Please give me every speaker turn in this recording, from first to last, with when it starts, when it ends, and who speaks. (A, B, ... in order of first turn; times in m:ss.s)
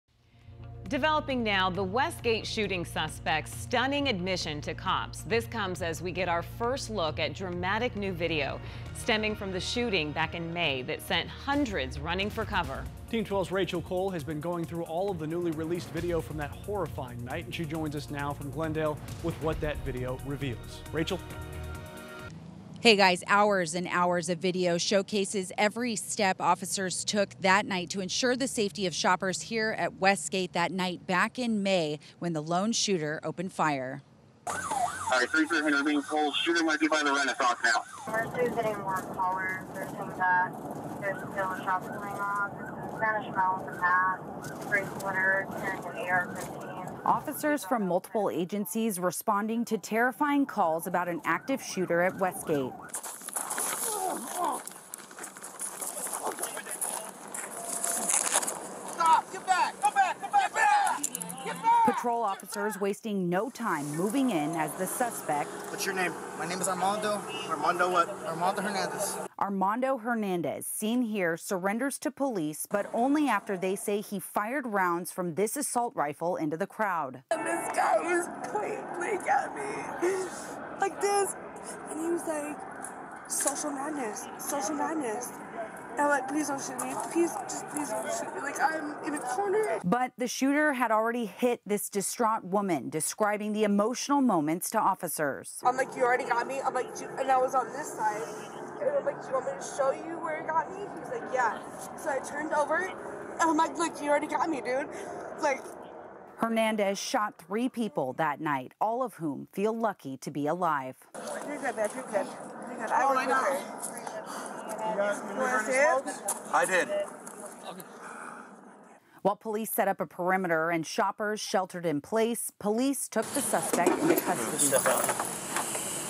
0:00.8-0:12.9 A
0:13.1-0:21.2 B
0:22.8-0:34.0 C
0:35.1-0:37.8 D
0:38.1-0:48.2 E
0:47.0-0:52.8 C
0:59.7-1:00.5 F
1:01.8-1:05.6 C
1:05.7-1:09.2 F
1:09.4-1:17.2 C
1:17.3-1:21.4 G
1:21.9-1:22.6 G
1:23.3-1:25.3 G
1:26.0-1:29.8 G
1:29.8-1:35.6 C
1:35.6-1:45.7 G
1:46.4-1:51.1 C
1:51.4-1:53.7 G
1:55.0-1:56.2 G
1:59.2-2:05.0 C